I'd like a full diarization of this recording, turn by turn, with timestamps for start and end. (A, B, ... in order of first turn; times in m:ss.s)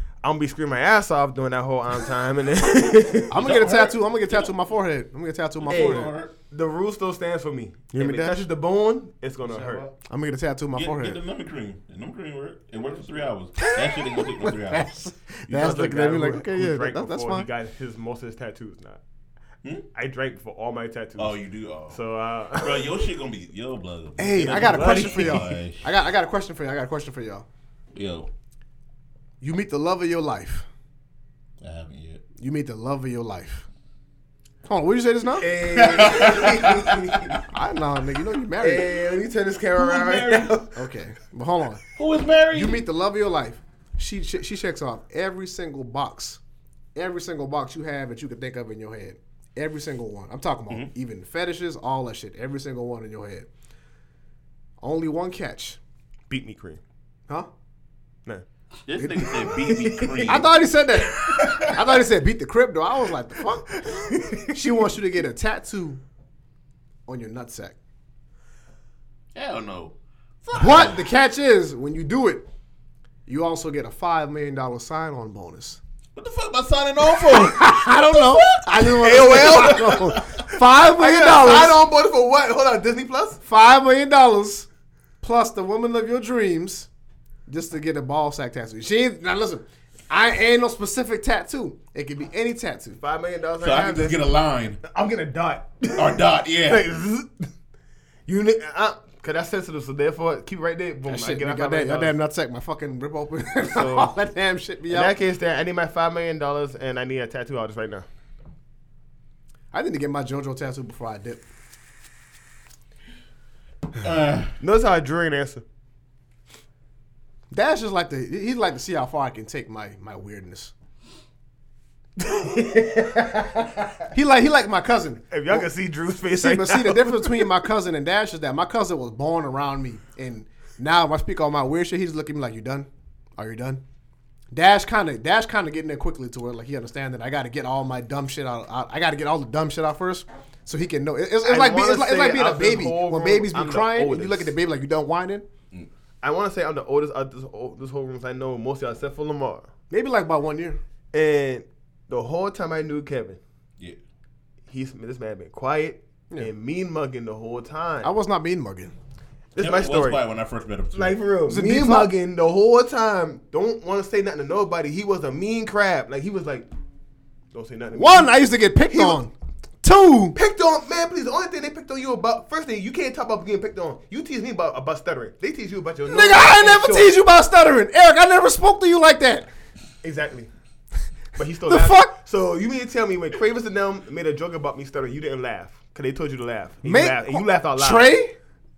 0:00.2-0:03.4 A
0:03.3-0:06.1 B
0:03.4-0:04.5 C
0:05.6-0:06.3 C
0:05.7-0:09.9 A
0:07.9-0:08.5 B
0:09.6-0:09.8 C
0:10.1-0:11.2 B
0:10.8-0:14.9 C
0:13.9-0:17.5 B
0:15.5-0:19.0 A
0:19.9-0:21.4 A
0:21.2-0:22.0 C
0:21.9-0:23.0 A
0:22.5-0:25.9 C
0:24.2-0:27.5 B
0:24.5-0:25.5 A
0:27.9-0:28.3 C
0:29.4-0:30.7 B
0:31.6-0:32.2 C
0:32.4-0:33.7 B
0:34.6-0:35.5 B
0:35.4-0:37.4 A
0:35.6-0:37.4 C
0:37.5-0:38.9 B
0:38.6-0:40.8 A
0:39.8-0:40.6 C
0:40.8-0:41.8 B
0:42.0-0:42.8 C
0:42.5-0:46.4 B
0:47.0-0:53.5 B
0:54.8-0:55.8 B
0:56.3-0:56.8 A
0:58.9-1:00.5 C
0:59.0-0:59.3 B
0:59.4-1:00.4 A
1:00.2-1:03.8 B
1:01.0-1:01.7 C
1:01.1-1:01.8 A
1:03.8-1:04.6 A
1:04.5-1:06.0 B
1:07.1-1:07.8 B
1:09.4-1:11.0 C
1:10.6-1:12.5 B
1:13.3-1:15.8 B
1:16.2-1:20.2 C
1:17.0-1:21.8 B
1:19.0-1:20.2 A
1:20.8-1:23.4 A
1:23.5-1:24.7 B
1:25.2-1:26.9 B
1:27.5-1:33.0 B
1:33.0-1:37.5 A
1:33.6-1:34.8 C
1:36.0-1:36.8 C
1:38.3-1:42.2 A
1:41.1-1:45.1 B
1:43.6-1:44.1 A
1:44.9-1:48.1 A
1:49.7-1:51.4 B
1:54.0-1:54.5 C
1:54.6-1:55.6 A
1:57.5-2:00.7 B
2:02.2-2:04.0 A
2:04.1-2:05.7 B
2:05.3-2:07.5 A
2:06.4-2:13.8 B
2:14.5-2:25.5 B
2:21.4-2:24.5 A
2:26.2-2:29.7 A
2:29.9-2:30.8 B
2:31.1-2:33.4 A
2:34.7-2:38.1 A
2:38.0-2:38.9 B
2:39.5-2:40.2 A
2:39.6-2:41.2 C
2:40.9-2:46.7 A
2:41.5-2:42.1 B
2:47.5-2:48.3 A
2:47.9-2:50.4 B
2:48.9-2:49.2 A
2:50.4-2:57.1 A
2:56.1-2:59.5 B
3:00.0-3:00.5 A
3:01.4-3:08.2 A
3:01.7-3:02.1 B
3:06.8-3:08.4 B